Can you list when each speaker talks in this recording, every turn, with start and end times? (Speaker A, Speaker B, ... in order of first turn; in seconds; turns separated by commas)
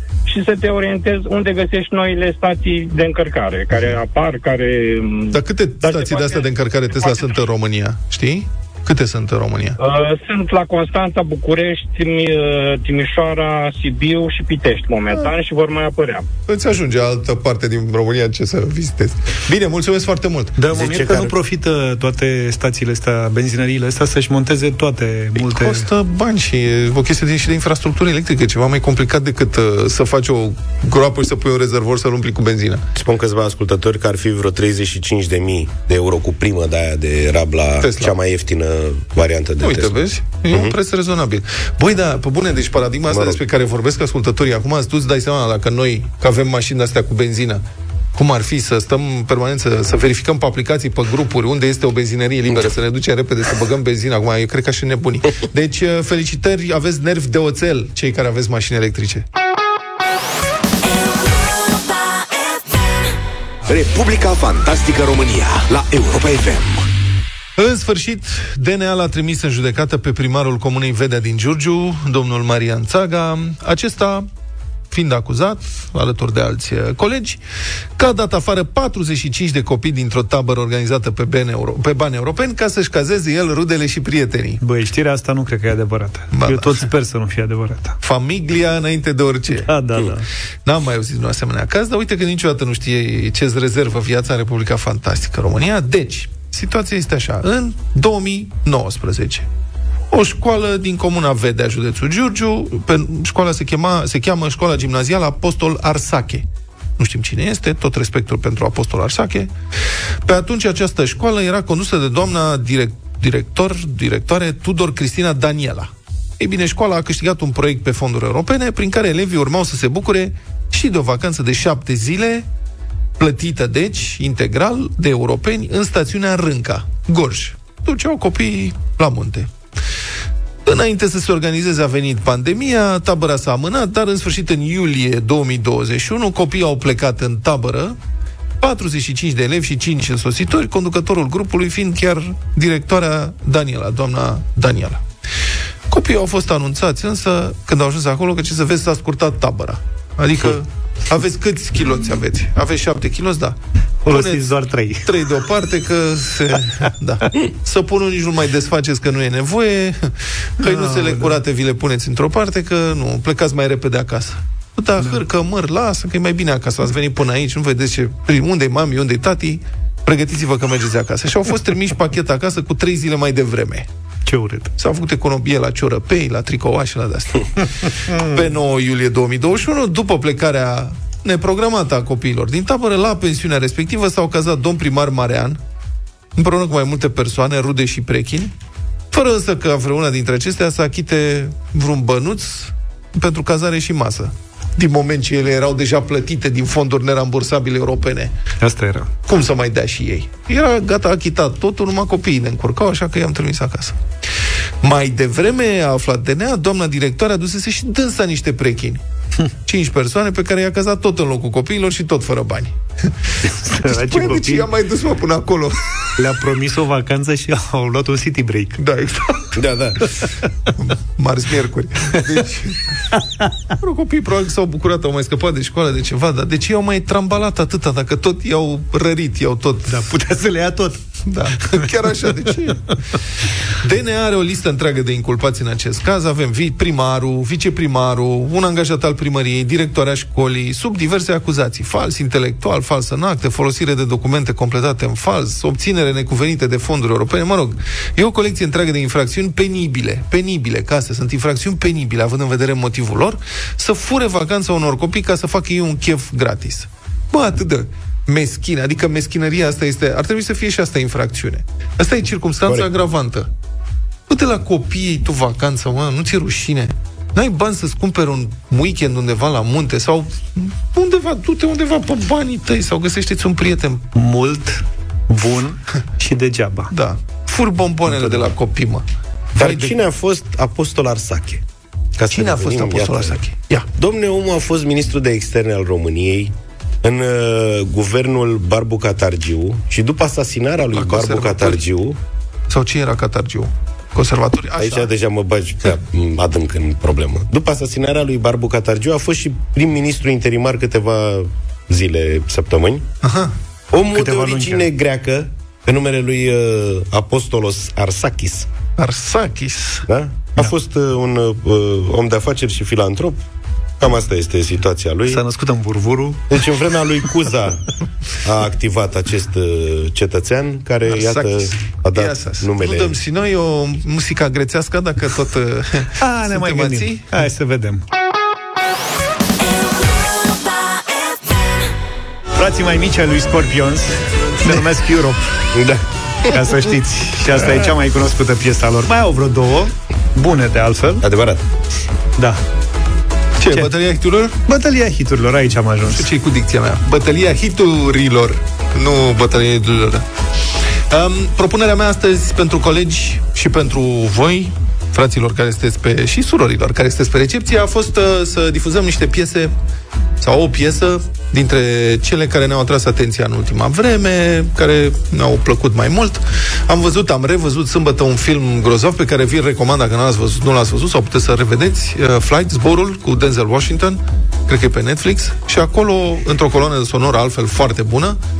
Speaker A: 0.2-6.4, Speaker B: 5.3-9.8, Speaker A: 9.8-16.2, Speaker B: 16.5-20.6, Speaker C: 20.6-25.9, Speaker D: 20.7-21.3, Speaker B: 25.4-32.8, Speaker D: 33.0-39.9, Speaker B: 37.8-38.2, Speaker B: 39.6-47.6, Speaker D: 43.1-43.4, Speaker B: 48.1-59.2, Speaker E: 63.6-66.9, Speaker B: 67.6-74.3, Speaker B: 74.9-77.4, Speaker B: 78.0-84.6, Speaker C: 84.6-88.0, Speaker B: 86.3-86.8, Speaker B: 88.0-89.7, Speaker C: 89.7-90.2, Speaker B: 90.6-99.5, Speaker B: 100.1-106.5, Speaker B: 107.0-109.5, Speaker B: 110.2-122.5, Speaker B: 123.2-129.5, Speaker B: 130.6-138.0, Speaker B: 138.6-145.0, Speaker B: 145.9-153.6, Speaker C: 154.0-155.0, Speaker B: 154.1-154.5, Speaker B: 155.0-173.9, Speaker C: 160.6-161.4, Speaker C: 174.3-174.7, Speaker B: 174.8-177.5, Speaker B: 178.1-185.6, Speaker B: 186.3-188.5, Speaker B: 189.1-198.3, Speaker C: 198.6-199.1, Speaker B: 199.2-204.0, Speaker B: 204.8-209.0, Speaker B: 209.7-213.1, Speaker C: 213.6-214.7, Speaker B: 213.8-215.8, Speaker C: 216.2-218.8, Speaker B: 218.8-219.4, Speaker D: 219.6-220.0, Speaker B: 220.8-222.8, Speaker B: 223.8-230.1, Speaker C: 229.9-231.0, Speaker B: 231.2-232.8, Speaker C: 231.7-232.5, Speaker B: 233.8-263.5, Speaker B: 264.3-274.1, Speaker C: 274.1-276.9, Speaker B: 276.9-279.1, Speaker C: 278.1-278.5, Speaker D: 279.6-281.6, Speaker B: 279.6-279.9, Speaker D: 282.2-283.4, Speaker B: 282.3-283.9, Speaker D: 284.0-292.2, Speaker B: 290.9-291.8, Speaker B: 292.7-295.1, Speaker D: 294.8-303.0, Speaker B: 303.2-303.5, Speaker D: 303.9-308.7, Speaker C: 304.1-304.9, Speaker B: 309.0-310.1, Speaker D: 310.1-313.4, Speaker D: 314.0-315.4, Speaker C: 315.3-316.4, Speaker D: 316.5-317.8, Speaker D: 318.4-323.1, Speaker B: 321.1-327.3, Speaker C: 326.2-328.0, Speaker C: 332.6-335.4, Speaker D: 335.7-336.0, Speaker C: 336.5-341.2, Speaker D: 341.2-341.6, Speaker B: 343.6-344.5, Speaker C: 343.6-343.9, Speaker C: 344.7-346.3, Speaker B: 346.1-350.2, Speaker B: 351.1-359.7, Speaker B: 360.4-378.4